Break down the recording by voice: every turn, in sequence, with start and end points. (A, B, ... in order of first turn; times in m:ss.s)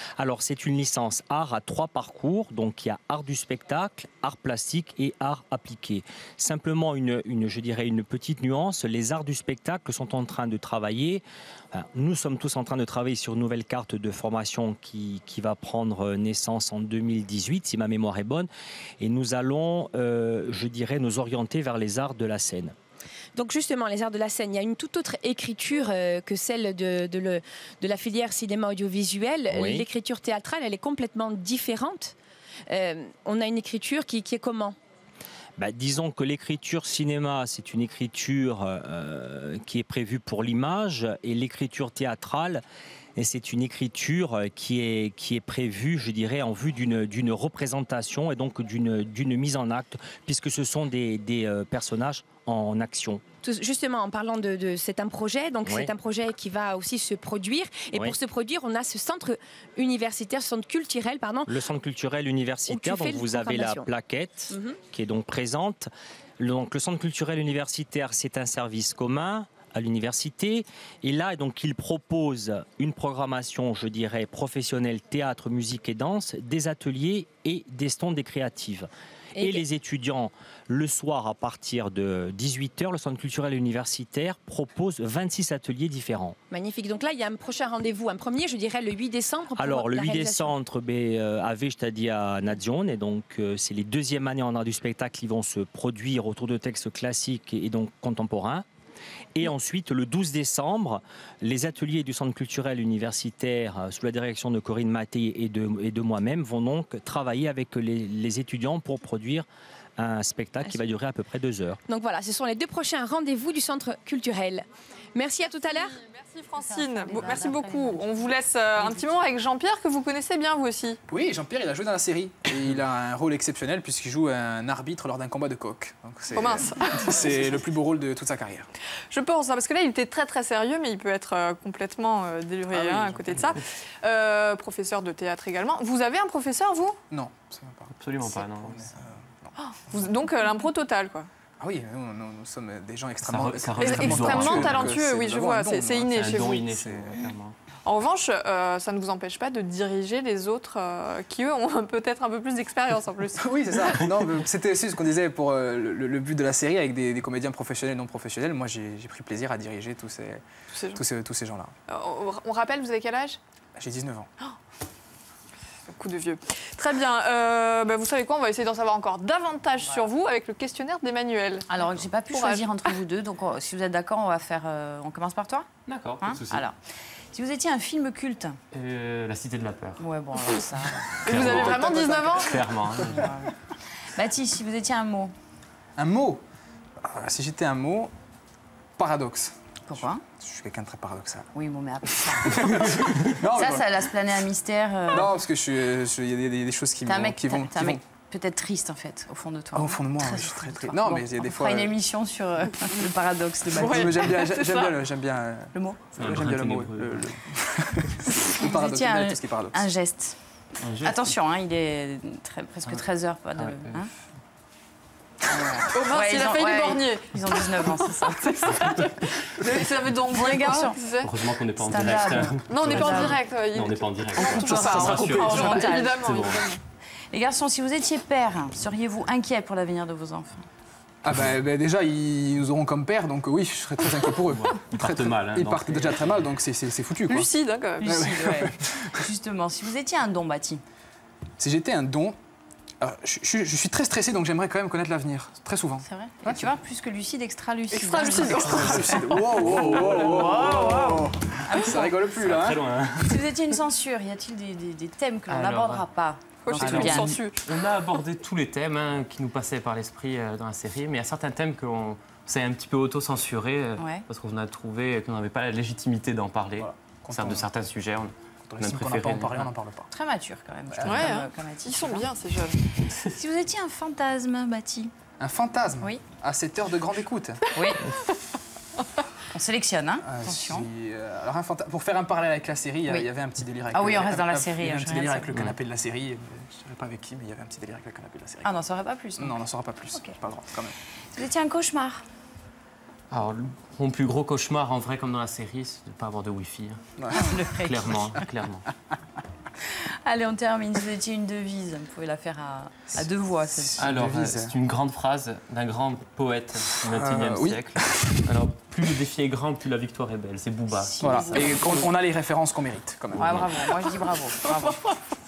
0:00.2-0:22.7 A
0:23.4-0:32.2 B
0:29.5-0:29.9 A
0:32.7-0:34.8 B
0:35.6-0:42.6 A
0:43.2-0:53.2 A
0:53.4-1:01.5 B
0:55.6-0:55.9 A
1:01.5-1:26.4 A
1:02.7-1:03.9 B
1:19.4-1:19.6 B
1:26.5-1:30.5 B
1:29.6-1:38.6 A
1:39.4-1:51.8 A
1:51.9-1:56.0 B
1:55.8-2:01.0 C
1:56.6-1:59.1 D
2:01.1-2:08.7 E
2:06.3-2:07.4 C
2:09.1-2:17.0 C
2:12.7-2:13.6 E
2:17.1-2:20.1 E
2:17.9-2:18.9 F
2:19.6-2:21.3 C
2:21.6-2:27.3 E
2:23.2-2:25.0 F
2:23.8-2:26.6 C
2:26.1-2:27.6 F
2:27.8-2:34.0 C
2:33.4-2:40.4 E
2:40.7-2:41.0 C
2:40.9-2:41.7 E
2:41.9-2:43.4 C
2:43.8-2:44.3 E
2:45.9-2:52.9 C
2:51.7-2:55.7 D
2:55.8-2:56.6 F
2:56.2-2:56.7 D
2:57.3-2:58.6 D
2:58.7-3:00.0 F
3:00.0-3:03.5 D
3:01.2-3:01.8 F
3:01.2-3:02.6 C
3:02.4-3:03.2 F
3:04.1-3:05.3 D
3:06.0-3:06.4 E
3:07.0-3:08.1 E
3:09.0-3:11.5 E
3:09.9-3:10.2 D
3:11.5-3:15.3 D
3:12.2-3:14.0 E
3:15.1-3:18.0 E
3:17.0-3:24.5 D
3:19.7-3:21.9 E
3:23.8-3:29.8 E
3:23.8-3:24.9 C
3:25.7-3:26.1 D
3:26.2-3:27.4 F
3:28.6-3:30.4 D
3:30.8-3:31.2 F
3:31.0-3:34.1 D
3:33.6-3:34.0 F
3:35.5-3:39.1 D
3:35.9-3:41.3 C
3:39.7-3:41.0 D
3:41.2-3:46.6 F
3:41.8-3:43.4 D
3:42.5-3:46.8 C
3:44.4-3:46.5 D
3:44.5-3:45.7 E
3:47.3-3:50.6 D
3:51.2-3:57.5 E
3:54.5-3:56.5 F
3:57.3-3:58.1 C
3:58.0-4:00.8 D
3:58.0-3:59.2 E
4:01.6-4:02.4 E
4:03.0-4:06.7 E
4:06.0-4:12.2 D
4:07.9-4:09.8 C
4:08.1-4:12.9 E
4:09.7-4:11.0 F
4:12.4-4:13.4 F
4:13.2-4:17.4 D
4:15.5-4:16.0 F
4:16.6-4:17.6 C
4:16.7-4:29.7 F
4:24.0-4:24.2 D
4:26.8-4:27.7 E
4:28.7-4:30.1 E
4:30.1-4:32.3 D
4:30.9-4:31.4 E
4:31.0-4:32.8 C
4:33.3-4:35.1 D
4:35.4-4:37.7 E
4:37.7-4:38.0 D
4:39.5-4:40.9 D
4:40.2-4:48.7 E
4:43.9-4:45.7 D
4:48.6-4:49.6 D
4:49.4-4:50.9 E
4:51.3-4:52.2 D
4:53.3-4:57.0 F
4:57.2-4:57.5 E
4:57.3-4:58.4 D
4:57.8-4:58.9 F
5:00.2-5:04.1 D
5:03.1-5:04.7 E
5:04.0-5:11.3 F
5:06.9-5:08.5 E
5:10.9-5:12.1 D
5:11.2-5:13.7 E
5:13.4-5:15.0 D
5:14.7-5:15.1 C